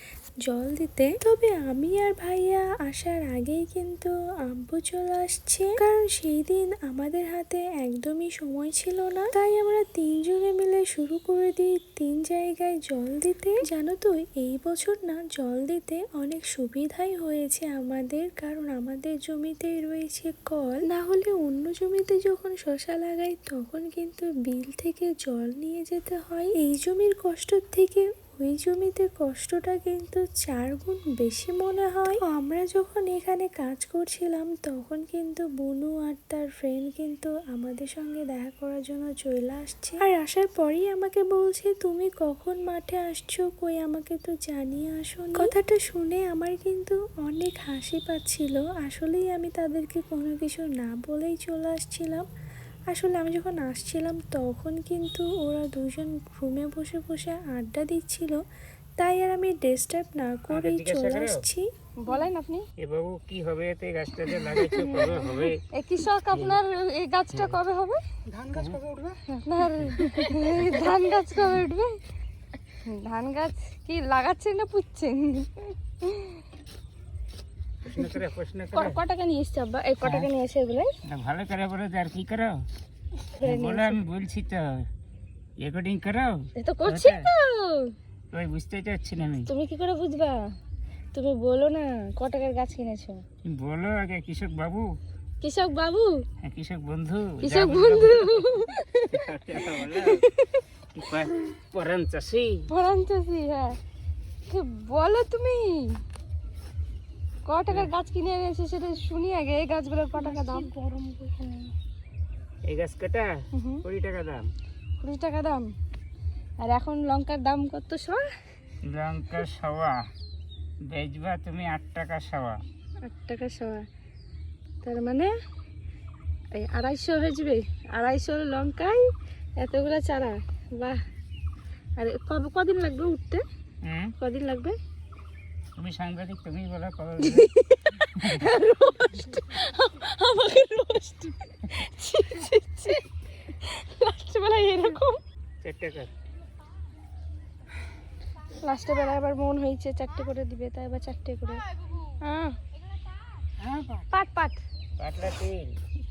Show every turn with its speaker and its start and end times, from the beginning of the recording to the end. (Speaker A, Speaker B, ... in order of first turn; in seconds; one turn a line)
Speaker A: 0.5-52.3
Speaker A: 52.9-58.4
Speaker A: 59.0-62.1
Speaker B: 60.5-61.4
Speaker C: 62.0-62.6
Speaker B: 62.8-65.6
Speaker C: 64.6-68.0
Speaker B: 66.3-66.6
Speaker B: 67.3-67.6
Speaker B: 68.5-68.9
Speaker C: 69.3-72.0
Speaker C: 72.8-76.4
Speaker B: 77.8-79.0
Speaker C: 78.7-80.9
Speaker B: 80.0-80.3
Speaker B: 81.0-82.6
Speaker C: 83.2-84.0
Speaker B: 83.4-84.8
Speaker B: 85.6-87.3
Speaker C: 86.6-87.9
Speaker B: 88.3-89.5
Speaker C: 89.4-90.4
Speaker C: 91.1-93.2
Speaker B: 93.4-94.9
Speaker C: 95.4-96.2
Speaker B: 96.4-100.3
Speaker C: 97.4-100.6
Speaker B: 100.9-102.7
Speaker C: 102.7-103.8
Speaker C: 104.5-106.0
Speaker C: 107.4-111.1
Speaker B: 112.7-113.3
Speaker C: 113.5-113.8
Speaker B: 113.8-114.4
Speaker C: 115.0-115.7
Speaker C: 116.6-118.2
Speaker B: 118.8-120.0
Speaker B: 120.9-122.6
Speaker C: 123.0-123.8
Speaker C: 124.8-125.3
Speaker C: 126.5-131.0
Speaker C: 132.0-133.4
Speaker B: 133.8-134.1
Speaker C: 134.2-134.8
Speaker B: 135.8-137.5
Speaker C: 137.2-145.2
Speaker B: 138.1-138.5
Speaker B: 145.6-146.1
Speaker C: 148.6-151.6
Speaker C: 152.2-152.6
Speaker B: 153.6-154.0
Speaker C: 154.1-154.6
Speaker B: 155.0-155.7